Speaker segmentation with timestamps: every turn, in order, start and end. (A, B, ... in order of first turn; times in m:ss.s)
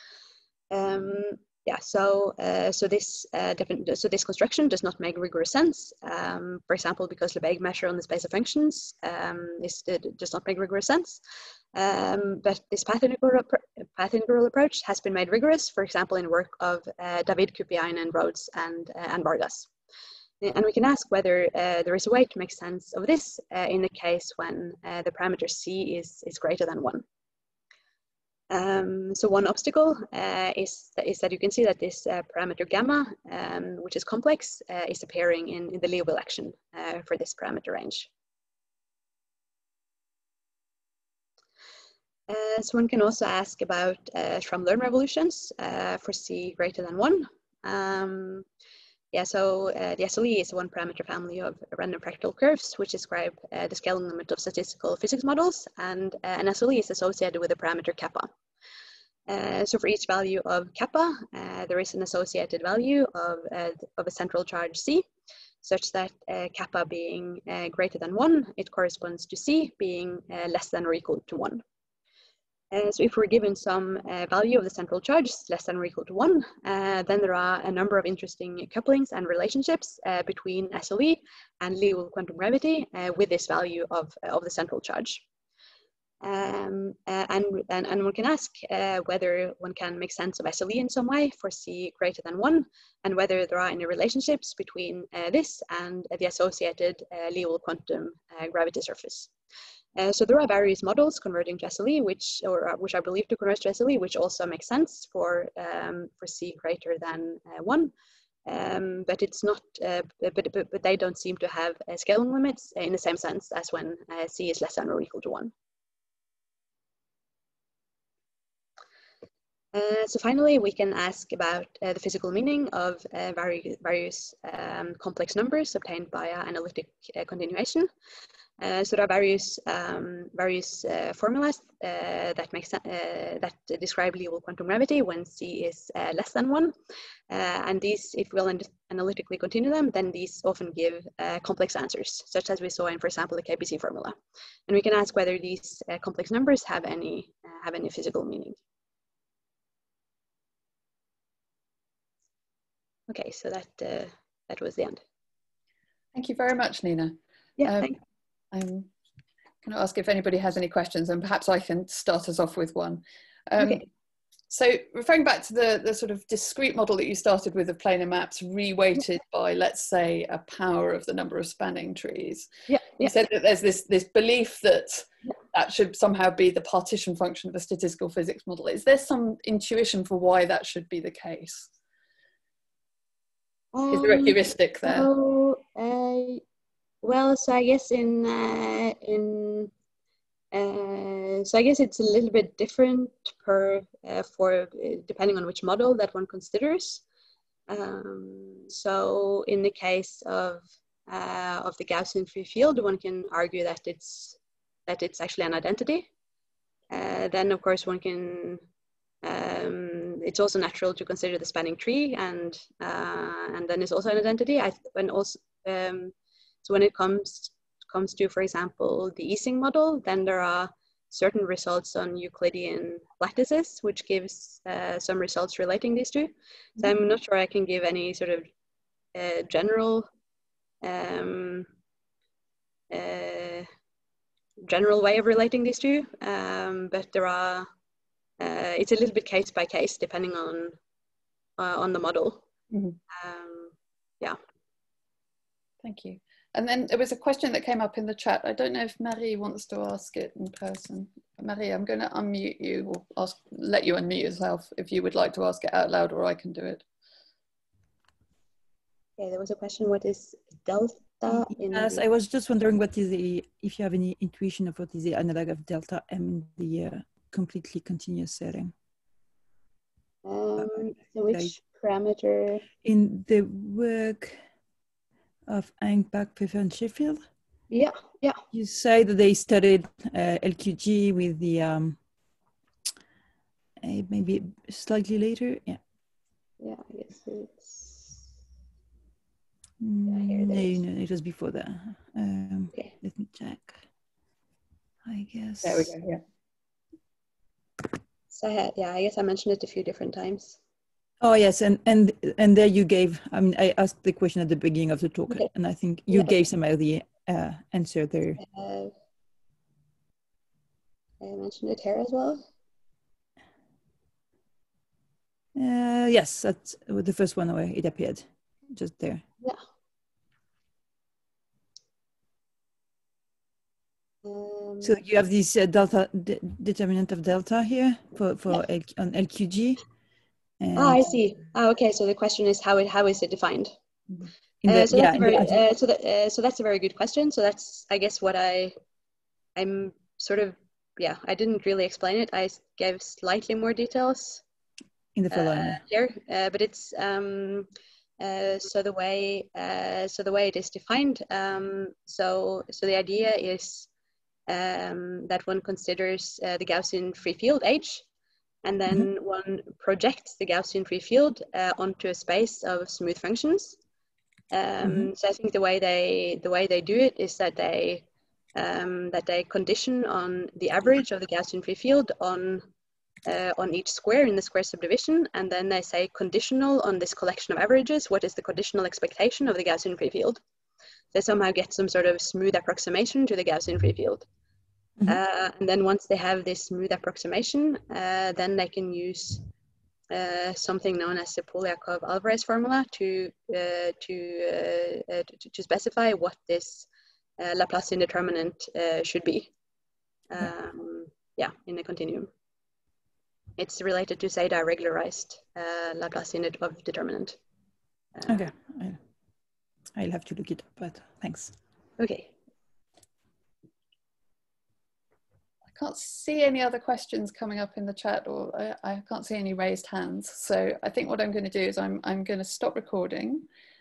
0:00.7-0:11.2 A
0:11.7-0:19.7 A
0:20.4-0:27.0 A
0:28.5-0:38.1 A
0:42.3-0:48.5 A
0:49.1-0:58.3 A
0:59.3-1:05.1 A
1:05.6-1:11.6 A
1:12.7-1:25.2 A
1:26.2-1:39.3 A
1:40.0-1:47.9 A
1:48.4-1:55.5 A
1:59.7-2:07.9 A
2:08.6-2:16.7 A
2:17.3-2:24.2 A
2:24.7-2:28.6 A
2:33.1-2:35.0 A
2:36.1-2:37.9 B
2:37.6-2:38.0 A
2:38.5-2:38.9 B
2:39.6-2:43.8 B
2:43.6-2:43.8 A
2:44.5-3:01.7 B
2:52.7-2:53.1 A
3:03.7-3:06.4 A
3:03.9-3:05.1 B
3:07.0-3:09.7 A
3:10.5-3:17.0 A
3:17.7-3:26.1 A
3:26.9-3:28.6 A
3:29.2-3:36.1 A
3:36.6-3:48.4 A
3:49.2-3:50.1 A
3:50.8-3:51.7 A
3:52.9-3:53.7 A
3:54.6-3:57.7 A
3:58.4-4:00.8 A
4:01.6-4:02.4 A
4:02.7-4:03.0 B
4:03.1-4:04.4 A
4:05.8-4:16.8 B
4:19.2-4:22.0 A
4:21.3-4:28.7 C
4:30.2-4:32.6 A
4:30.6-4:31.6 C
4:32.8-4:34.4 C
4:35.5-4:37.2 C
4:37.7-4:38.4 A
4:38.5-4:42.0 C
4:43.8-4:45.8 C
4:46.6-4:48.2 A
4:49.8-4:53.8 C
4:50.1-4:50.8 A
4:55.0-4:55.9 C
4:55.6-4:56.2 B
4:58.3-5:00.6 A
5:01.2-5:08.4 C
5:08.4-5:08.9 A
5:11.2-5:12.5 A
5:15.6-5:19.2 C
5:24.2-5:25.0 A
5:24.8-5:29.8 C
5:30.6-5:31.0 C
5:30.8-5:33.7 A
5:34.2-5:35.6 C
5:34.7-5:38.7 A
5:39.6-5:44.4 A
5:45.2-5:45.8 C
5:45.3-5:47.7 A
5:48.2-5:53.9 A
5:54.5-5:58.0 A
5:58.6-6:03.8 A
6:04.5-6:12.6 A
6:04.8-6:05.1 C
6:13.2-6:20.4 A
6:21.1-6:24.3 A
6:25.1-6:29.4 A
6:30.1-6:36.9 A
6:37.4-6:39.5 A
6:40.3-6:42.3 A
6:43.6-6:47.4 A
6:48.2-6:48.5 A
6:48.3-6:49.0 C
6:50.0-6:51.5 C
6:52.0-6:52.3 A
6:55.8-7:03.5 B